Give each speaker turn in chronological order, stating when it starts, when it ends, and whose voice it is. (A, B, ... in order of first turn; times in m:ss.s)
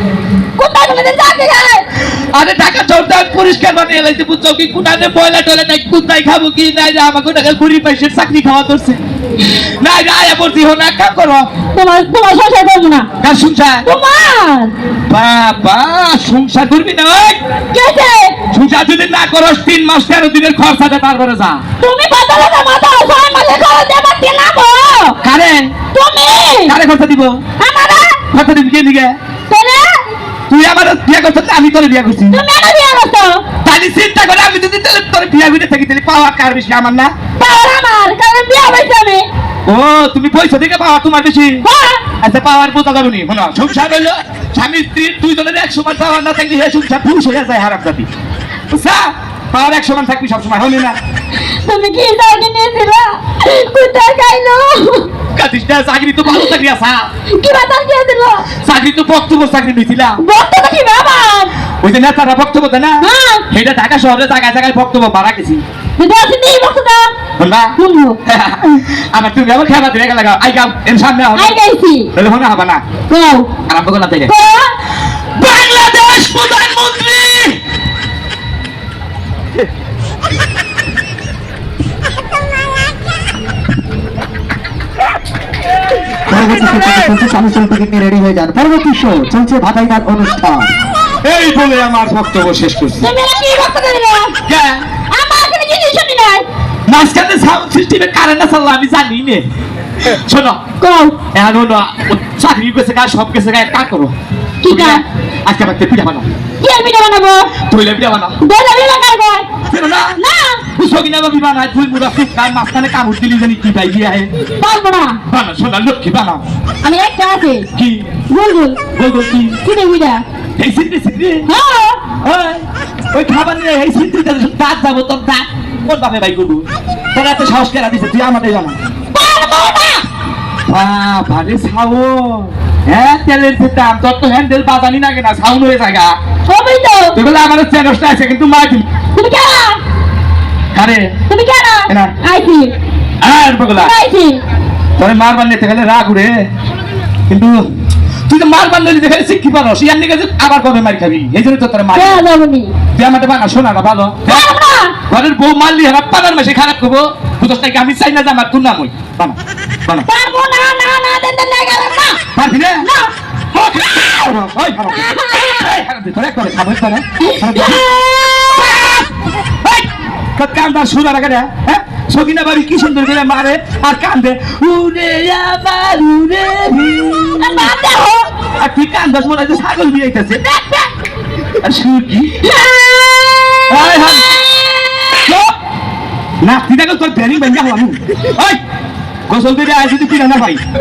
0:00.6-0:01.9 A
0:02.3-0:09.0 B
0:09.8-0:11.5 B
0:11.7-0:13.1 A
0:13.2-0:13.8 B
0:13.8-0:14.7 A
0:15.1-0:17.4 B
0:17.7-0:18.4 A
0:18.5-0:21.6 B
0:21.8-0:25.2 A
0:25.2-0:25.7 B
0:25.9-0:26.8 A
0:26.7-0:27.4 B
0:27.6-0:28.2 A
0:28.3-0:29.2 B
0:29.5-0:29.9 A
0:30.5-0:32.4 B
0:32.3-0:33.4 A
0:33.6-0:37.1 B
0:37.4-0:39.3 A
0:39.7-0:41.6 B
0:41.6-0:42.1 A
0:42.2-0:48.1 B
0:48.7-0:51.0 B
0:51.7-0:55.1 A
0:55.4-0:57.0 B
0:57.4-0:58.5 A
0:58.6-1:00.2 B
1:00.2-1:01.5 A
1:01.8-1:05.6 B
1:03.0-1:03.4 A
1:06.0-1:07.1 A
1:07.4-1:07.7 B
1:07.8-1:08.2 A
1:08.3-1:11.6 B
1:11.4-1:12.1 A
1:12.2-1:12.8 B
1:13.1-1:13.5 A
1:13.7-1:14.3 B
1:14.3-1:14.7 A
1:15.4-1:17.6 B
1:26.3-1:30.7 C
1:31.2-1:33.1 B
1:33.0-1:34.4 A
1:34.5-1:34.8 B
1:35.1-1:36.5 A
1:36.9-1:39.4 B
1:40.1-1:40.6 B
1:40.8-1:41.2 A
1:41.3-1:44.1 B
1:44.6-1:45.0 A
1:44.6-1:46.2 B
1:46.6-1:47.6 A
1:47.6-1:48.4 B
1:48.4-1:49.5 A
1:49.7-1:50.1 B
1:50.2-1:50.7 A
1:50.8-1:54.3 B
1:54.6-1:55.2 A
1:55.3-1:56.4 B
1:56.8-1:57.7 A
1:57.8-1:58.2 B
1:58.3-1:58.9 A
1:59.0-1:59.6 B
1:59.6-2:00.2 A
2:00.6-2:01.5 B
2:01.5-2:02.1 A
2:02.2-2:08.8 B
2:09.1-2:10.1 A
2:10.7-2:16.2 B
2:16.5-2:17.2 A
2:17.2-2:18.8 B
2:19.2-2:19.8 A
2:20.8-2:21.1 B
2:21.3-2:22.7 A
2:23.2-2:23.9 B
2:23.8-2:24.4 A
2:25.0-2:26.4 B
2:27.3-2:27.6 B
2:28.3-2:32.2 B
2:31.9-2:32.7 A
2:33.0-2:34.5 B
2:34.3-2:35.0 A
2:35.1-2:39.4 B
2:40.1-2:42.3 A
2:42.4-2:42.8 B
2:42.8-2:43.1 A
2:43.5-2:47.9 B
2:45.0-2:45.7 A
2:47.2-2:48.8 A
2:48.5-2:49.0 B
2:49.6-2:57.7 B
2:57.4-2:58.3 A
2:58.6-3:00.9 B
3:01.6-3:02.4 B
3:02.4-3:05.3 A
3:03.7-3:04.3 B
3:06.4-3:08.6 B
3:09.3-3:10.6 B